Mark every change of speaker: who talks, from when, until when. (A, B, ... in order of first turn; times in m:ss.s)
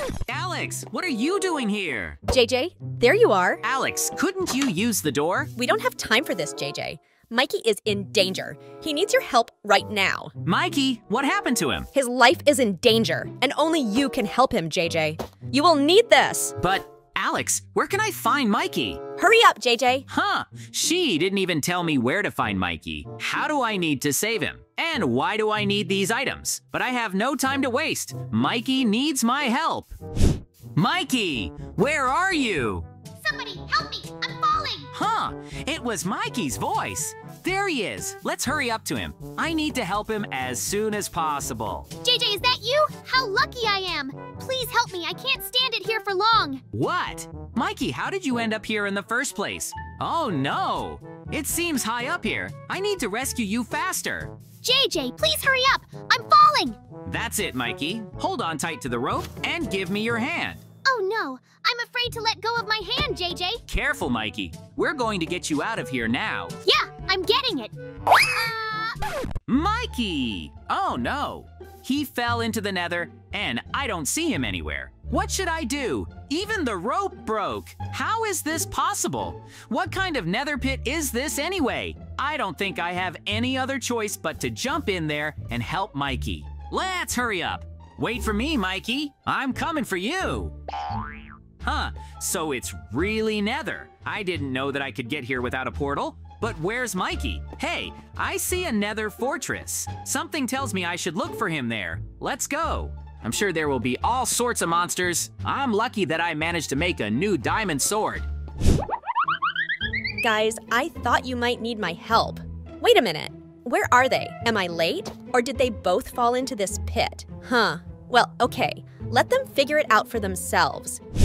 0:00.3-0:02.2 A
0:02.3-0:03.6 B
0:03.6-0:05.5 A
0:05.6-0:10.3 B
0:10.4-0:11.9 A
0:11.9-0:16.6 B
0:16.6-0:19.0 A
0:19.2-0:20.0 B
0:20.1-0:29.9 A
0:30.8-0:32.9 A
0:33.2-0:34.9 C
0:34.9-0:41.9 A
0:42.0-0:46.6 C
0:46.7-0:54.3 A
0:54.6-0:56.8 C
0:57.0-1:00.6 A
1:00.8-1:03.6 C
1:03.7-1:06.6 A
1:06.6-1:09.0 C
1:09.5-1:30.5 A
1:31.6-1:48.3 A
1:50.2-2:01.0 B